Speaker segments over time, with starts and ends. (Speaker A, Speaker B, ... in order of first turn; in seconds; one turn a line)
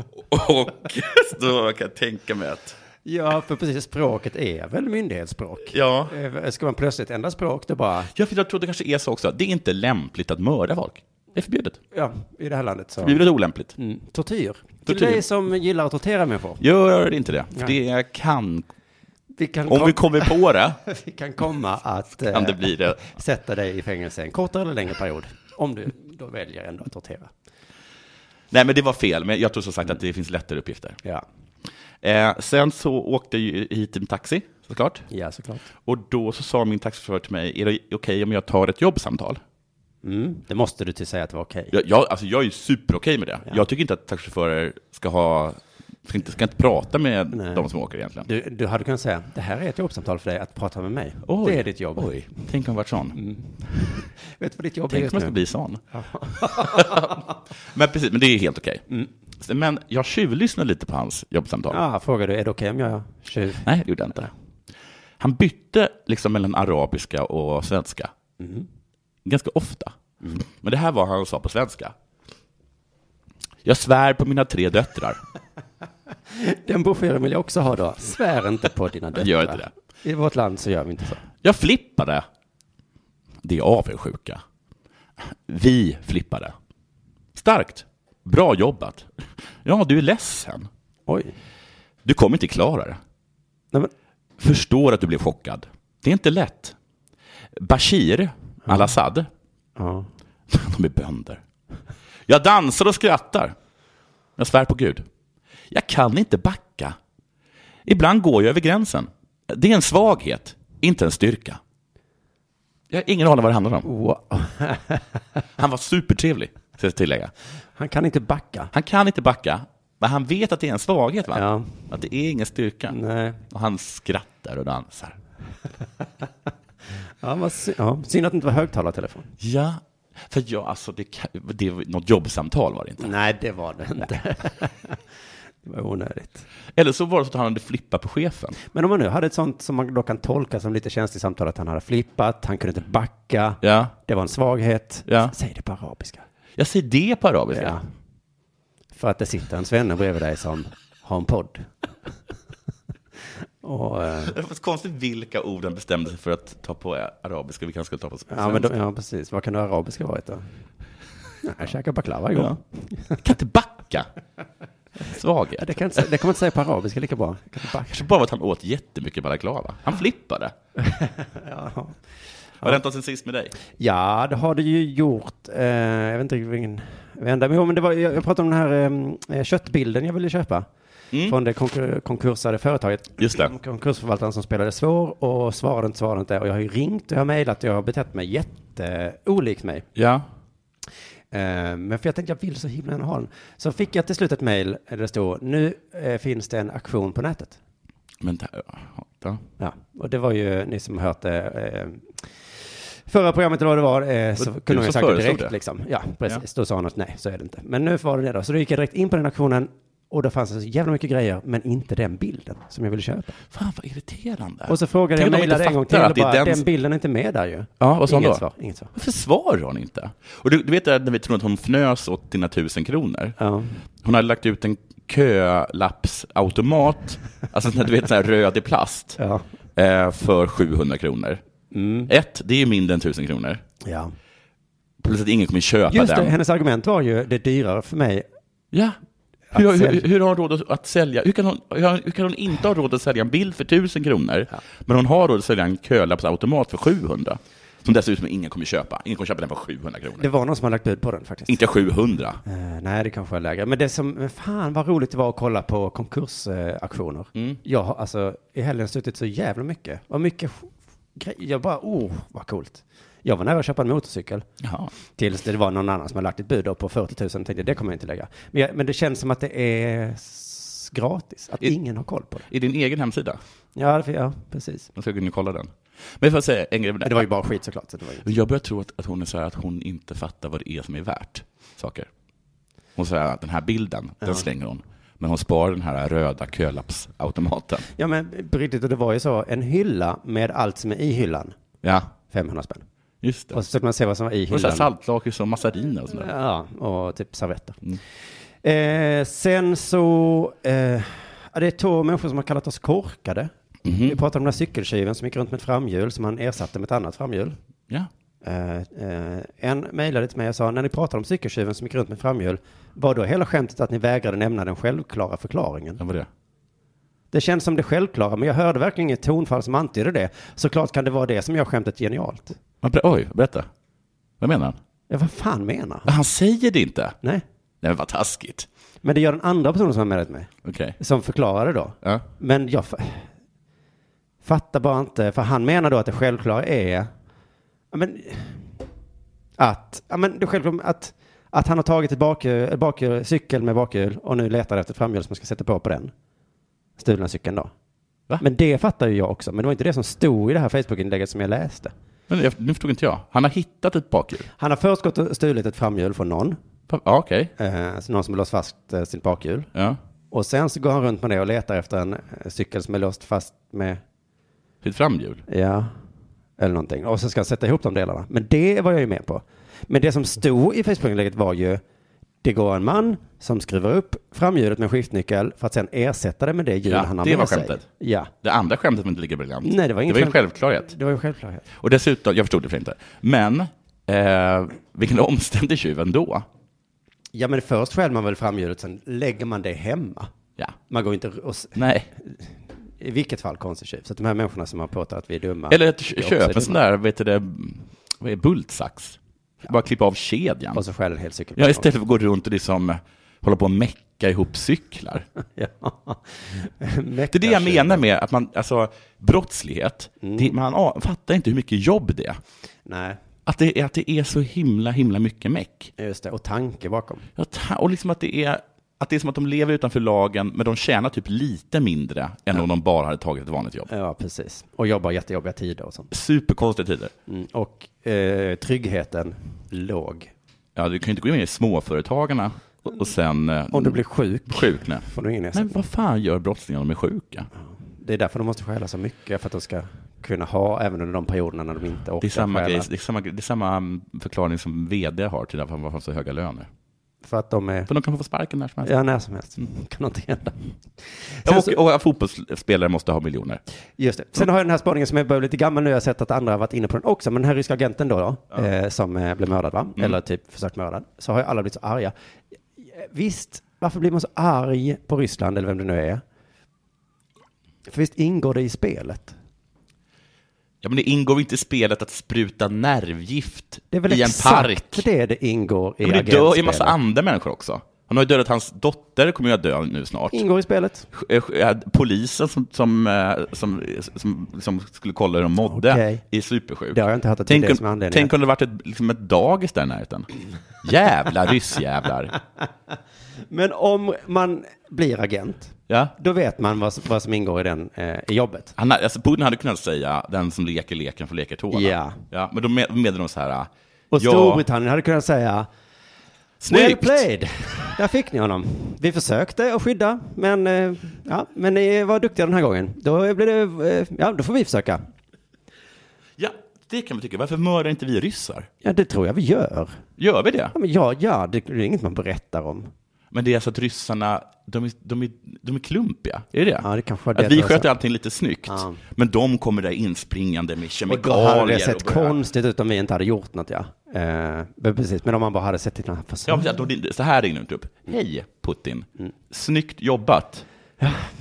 Speaker A: 0.1-2.8
Speaker B: 3.0-8.1
Speaker A: 5.7-6.1
Speaker A: 8.1-11.8
Speaker B: 11.9-13.2
Speaker A: 13.0-13.8
Speaker B: 13.8-16.6
Speaker A: 14.8-15.2
Speaker A: 16.6-18.7
Speaker B: 19.3-27.3
Speaker A: 19.7-20.8
Speaker A: 22.3-23.0
Speaker A: 28.5-31.0
Speaker A: 32.0-35.1
Speaker B: 35.1-35.6
Speaker A: 35.9-39.4
Speaker B: 40.0-41.7
Speaker A: 41.7-48.3
Speaker B: 47.3-47.7
Speaker B: 48.2-52.1
Speaker A: 51.2-53.2
Speaker B: 53.1-55.3
Speaker A: 54.9-55.8
Speaker B: 55.9-57.2
Speaker A: 56.4-58.8
Speaker A: 59.4-61.8
Speaker B: 61.7-63.6
Speaker A: 63.6-64.3
Speaker A: 65.2-68.1
Speaker B: 68.4-68.7
Speaker A: 69.2-71.9
Speaker A: 73.6-75.2
Speaker B: 76.3-81.2
Speaker A: 79.1-79.7
Speaker A: 81.4-82.2
Speaker A: 83.4-84.4
Speaker A: 85.2-86.5
Speaker A: 87.3-90.7
Speaker B: 91.1-91.3
Speaker A: 92.0-93.0
Speaker A: 94.4-96.7
Speaker A: 97.5-99.3
Speaker B: 98.6-99.0
Speaker B: 99.8-100.1
Speaker A: 100.5-101.4
Speaker A: 102.3-103.5
Speaker A: 104.4-105.0
Speaker A: 105.7-107.0
Speaker A: 107.8-111.6
Speaker A: 112.9-113.9
Speaker B: 113.8-115.0
Speaker A: 115.6-117.3
Speaker B: 117.8-118.7
Speaker A: 118.7-123.0
Speaker B: 121.3-121.7
Speaker B: 122.9-123.4
Speaker A: 123.5-125.2
Speaker B: 127.2-129.3
Speaker A: 129.4-133.1
Speaker B: 133.0-135.0
Speaker B: 135.6-136.4
Speaker A: 136.7-138.6
Speaker B: 138.7-146.2
Speaker A: 143.6-143.9
Speaker A: 145.1-145.3
Speaker A: 146.6-147.8
Speaker B: 147.5-147.8
Speaker B: 148.9-151.7
Speaker B: 153.6-154.3
Speaker A: 154.2-158.7
Speaker B: 158.3-160.4
Speaker B: 161.4-163.2
Speaker A: 163.2-164.1
Speaker A: 165.0-166.0
Speaker B: 165.6-168.0
Speaker A: 167.9-170.5
Speaker B: 170.8-171.9
Speaker A: 172.6-173.5
Speaker B: 173.8-180.7
Speaker B: 181.2-189.9
Speaker A: 183.2-183.5
Speaker A: 189.9-190.3
Speaker B: 191.3-197.6
Speaker A: 198.2-199.4
Speaker B: 199.6-202.2
Speaker B: 203.1-213.4
Speaker A: 204.4-205.6
Speaker A: 213.5-216.6
Speaker B: 214.7-218.9
Speaker A: 217.8-223.3
Speaker B: 223.4-223.7
Speaker A: 224.0-229.2
Speaker B: 229.2-229.4
Speaker A: 229.8-231.4
Speaker B: 231.7-232.1
Speaker A: 232.1-233.6
Speaker B: 233.8-234.1
Speaker A: 235.0-236.3
Speaker B: 235.9-238.2
Speaker A: 238.7-239.0
Speaker B: 239.5-240.0
Speaker A: 239.5-250.2
Speaker B: 250.2-251.6
Speaker A: 251.5-252.4
Speaker B: 252.4-264.4
Speaker A: 264.6-264.9
Speaker B: 265.1-272.5
Speaker A: 272.5-273.4
Speaker B: 273.7-274.9
Speaker A: 274.9-277.3
Speaker B: 277.0-278.3
Speaker A: 278.2-282.1
Speaker A: 282.9-287.9
Speaker B: 287.9-291.5
Speaker A: 291.8-292.1
Speaker B: 292.3-292.8
Speaker A: 293.2-293.6
Speaker B: 293.5-294.9
Speaker A: 294.5-296.3
Speaker B: 296.1-297.8
Speaker B: 298.6-303.5
Speaker A: 303.8-304.2
Speaker B: 304.0-307.6
Speaker B: 308.4-316.0
Speaker A: 316.0-316.3
Speaker B: 317.3-322.6
Speaker A: 322.8-323.7
Speaker A: 324.4-324.8
Speaker B: 325.1-326.1
Speaker A: 326.1-327.1
Speaker A: 327.8-328.7
Speaker B: 329.0-333.3
Speaker A: 330.6-331.0
Speaker B: 334.4-337.1
Speaker B: 337.9-338.6
Speaker B: 339.6-346.1
Speaker B: 347.0-347.7
Speaker B: 348.4-351.9
Speaker A: 352.3-354.5
Speaker B: 354.6-356.6
Speaker A: 356.9-357.5
Speaker B: 357.6-359.7
Speaker A: 359.7-360.0
Speaker B: 360.3-364.0
Speaker A: 364.8-365.4
Speaker B: 365.5-365.9
Speaker B: 366.6-371.8
Speaker B: 372.4-378.3
Speaker A: 376.9-377.8
Speaker A: 378.4-380.9
Speaker B: 379.6-381.6
Speaker A: 381.8-386.4
Speaker B: 387.3-390.3
Speaker B: 390.9-392.4
Speaker A: 391.8-392.1
Speaker B: 393.0-396.8
Speaker A: 395.7-400.8
Speaker B: 400.7-401.9
Speaker A: 401.6-405.3
Speaker B: 405.6-408.0
Speaker A: 407.3-412.4
Speaker B: 410.2-410.5
Speaker B: 412.9-413.2
Speaker A: 413.4-415.9
Speaker B: 416.0-417.3
Speaker A: 417.4-423.9
Speaker B: 423.9-426.1
Speaker A: 426.1-427.1
Speaker B: 427.3-430.3
Speaker A: 430.8-434.0
Speaker B: 433.7-435.7
Speaker A: 434.5-437.5
Speaker B: 437.9-442.9
Speaker A: 442.2-446.7
Speaker B: 447.2-447.9
Speaker A: 447.9-448.9
Speaker B: 448.8-450.6
Speaker B: 451.4-451.8
Speaker A: 451.4-453.6
Speaker B: 454.0-462.1
Speaker B: 462.8-466.2
Speaker B: 467.9-469.3
Speaker A: 470.8-475.0
Speaker B: 473.9-476.9
Speaker A: 476.0-480.4
Speaker B: 480.3-481.1
Speaker A: 481.1-490.3
Speaker B: 485.6-486.2
Speaker B: 486.9-488.3
Speaker A: 490.8-492.4
Speaker B: 493.5-498.7
Speaker A: 495.9-496.1
Speaker A: 498.8-504.6
Speaker B: 501.7-502.2
Speaker B: 504.1-505.7
Speaker A: 506.6-507.2
Speaker B: 506.7-515.0
Speaker A: 516.4-518.7
Speaker B: 518.8-520.0
Speaker A: 520.2-520.7
Speaker B: 520.7-522.9
Speaker A: 523.3-532.4
Speaker B: 526.8-527.9
Speaker B: 528.7-529.0
Speaker B: 531.1-536.7
Speaker A: 536.5-540.6
Speaker B: 541.0-541.3